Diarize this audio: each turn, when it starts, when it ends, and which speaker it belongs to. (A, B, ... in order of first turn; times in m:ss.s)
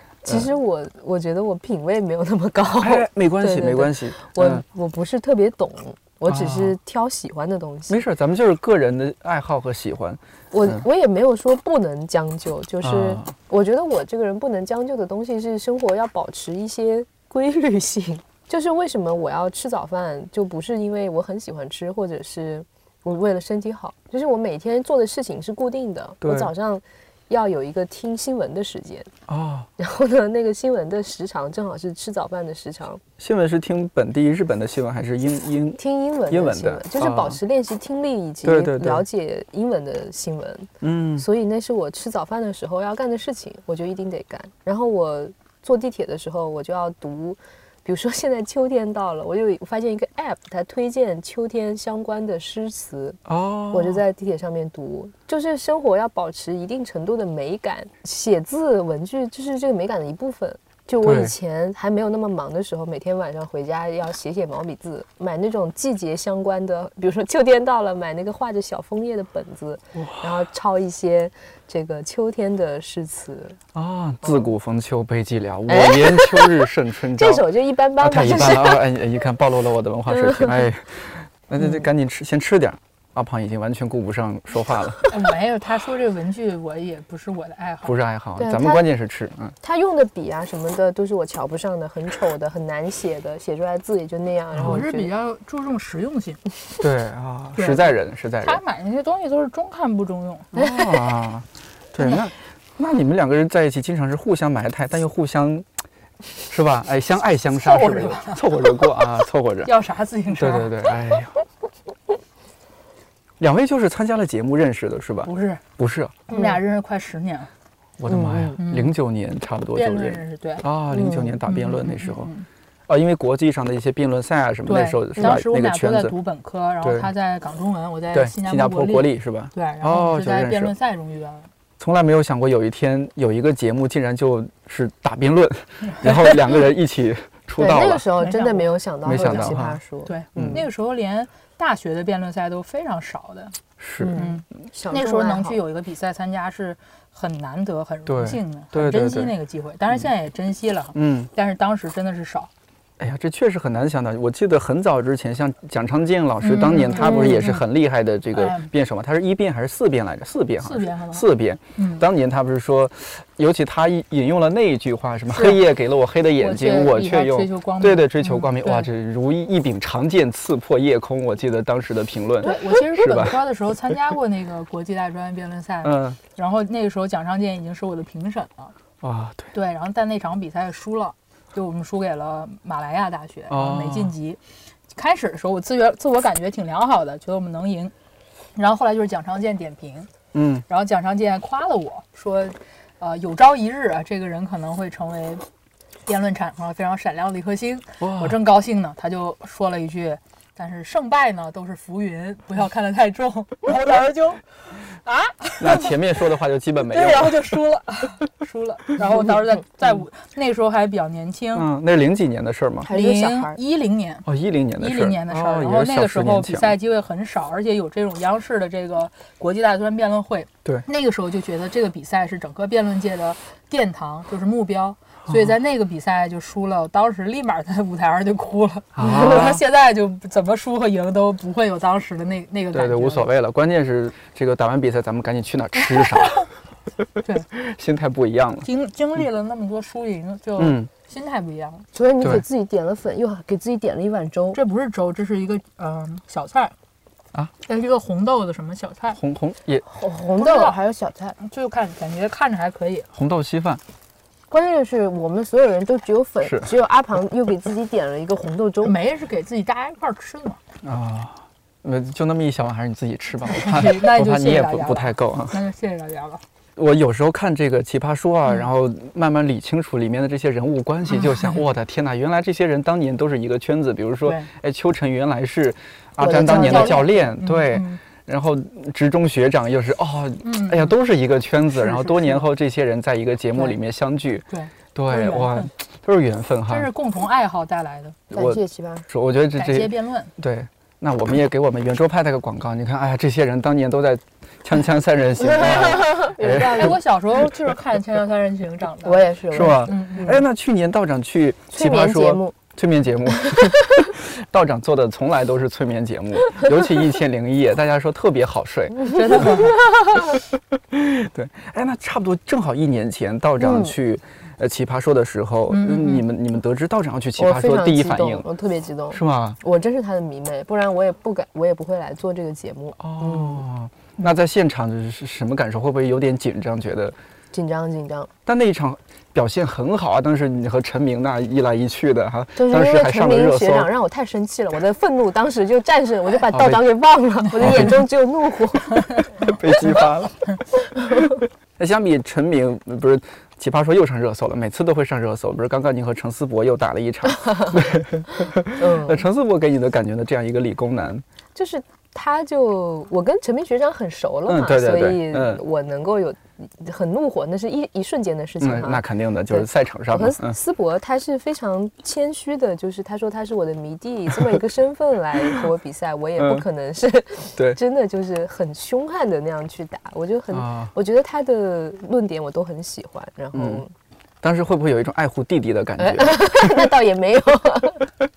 0:00.2-0:08.0 A
0:02.8-0:04.6 B
0:06.2-0:06.8 B
0:07.9-0:10.8 B
0:10.5-0:29.1 A
0:12.8-0:13.3 B
0:26.2-0:26.5 B
0:29.3-0:29.7 B
0:29.8-0:33.0 A
0:33.2-0:37.4 B
0:35.8-0:53.2 A
0:38.4-0:39.0 B
0:40.8-0:41.3 B
0:53.3-0:54.0 B
0:53.7-1:13.6 A
1:01.0-1:01.3 B
1:09.9-1:10.5 B
1:13.7-1:25.1 B
1:15.7-1:18.8 A
1:25.1-1:27.9 C
1:27.8-1:29.6 B
1:28.4-1:28.8 A
1:29.6-1:35.1 A
1:34.5-1:34.8 B
1:34.6-1:36.4 C
1:36.8-1:38.6 B
1:37.5-1:37.9 C
1:38.4-1:40.5 C
1:40.5-1:45.7 B
1:42.0-1:42.3 C
1:46.5-1:49.7 B
1:47.5-1:48.5 C
1:49.6-1:50.7 C
1:50.3-1:51.4 B
1:53.4-1:56.2 B
1:55.2-1:55.6 C
1:56.3-1:57.5 C
1:56.3-1:56.6 A
1:58.0-2:02.3 B
1:58.1-1:58.6 A
1:58.6-1:58.9 C
1:59.7-2:00.6 C
2:00.9-2:01.4 A
2:01.4-2:02.4 C
2:02.9-2:06.1 B
2:04.6-2:11.5 C
2:06.8-2:07.1 B
2:08.1-2:10.7 B
2:11.8-2:18.1 B
2:15.9-2:16.4 C
2:17.6-2:20.6 A
2:18.2-2:23.6 C
2:19.0-2:19.8 B
2:20.3-2:20.6 B
2:23.8-2:24.2 B
2:24.0-2:25.6 A
2:24.2-2:32.5 C
2:28.1-2:29.3 B
2:30.9-2:31.3 B
2:33.0-2:53.4 B
2:36.4-2:37.6 C
2:37.0-2:37.4 A
2:38.3-2:38.7 C
2:40.6-2:41.2 C
2:41.8-2:42.0 C
2:45.3-2:45.6 C
2:46.4-2:48.9 C
2:52.4-2:58.7 C
2:55.8-2:56.2 B
2:59.0-2:59.5 B
2:59.5-3:04.4 C
3:03.5-3:04.1 B
3:04.9-3:07.9 C
3:08.5-3:10.1 C
3:10.3-3:10.6 B
3:10.7-3:15.4 C
3:16.0-3:24.4 C
3:18.0-3:18.4 B
3:25.0-3:26.0 C
3:25.6-3:27.5 B
3:26.8-3:31.7 C
3:31.5-3:32.9 B
3:32.8-3:33.6 A
3:32.9-3:34.2 C
3:34.2-3:36.7 B
3:34.8-3:53.3 C
3:49.0-3:49.6 B
3:52.7-3:56.4 B
3:57.5-3:58.7 B
3:58.6-4:01.9 C
4:00.6-4:00.9 B
4:01.9-4:04.6 A
4:04.5-4:06.7 C
4:07.6-4:09.2 C
4:09.1-4:09.8 B
4:09.9-4:11.4 A
4:10.4-4:10.8 C
4:11.4-4:13.1 C
4:13.1-4:13.8 B
4:14.5-4:18.9 A
4:16.4-4:16.7 B
4:18.8-4:20.6 C
4:20.8-4:25.6 B
4:23.5-4:26.4 C
4:26.8-4:46.9 B
4:31.1-4:31.6 C
4:34.2-4:34.5 C
4:36.2-4:37.3 A
4:36.3-4:38.0 C
4:40.4-4:40.9 C
4:41.7-4:42.5 C
4:44.5-4:45.7 C
4:46.7-4:48.2 C
4:48.3-4:57.5 B
4:48.3-4:49.1 A
4:49.5-4:50.3 C
4:55.4-4:57.0 A
4:56.5-5:00.4 C
4:59.0-5:00.4 A
4:59.5-5:09.7 B
5:01.7-5:02.5 A
5:09.1-5:09.8 C
5:10.3-5:18.4 B
5:13.6-5:13.9 A
5:15.7-5:16.2 C
5:17.4-5:23.6 A
5:19.1-5:19.6 B
5:23.0-5:27.2 B
5:27.5-5:28.3 A
5:28.4-5:33.9 B
5:32.6-5:39.3 A
5:36.5-5:36.8 B
5:37.5-5:38.0 B
5:39.1-5:39.5 C
5:39.4-5:40.4 B
5:41.1-5:41.4 A
5:41.8-5:51.2 B
5:47.3-5:47.8 A
5:48.7-5:49.2 A
5:51.5-6:13.9 A
5:54.5-5:55.6 B
5:58.6-6:00.6 B
6:06.4-6:06.6 B
6:10.5-6:10.9 B
6:13.5-6:13.8 B
6:14.4-6:16.9 B
6:16.0-6:18.1 A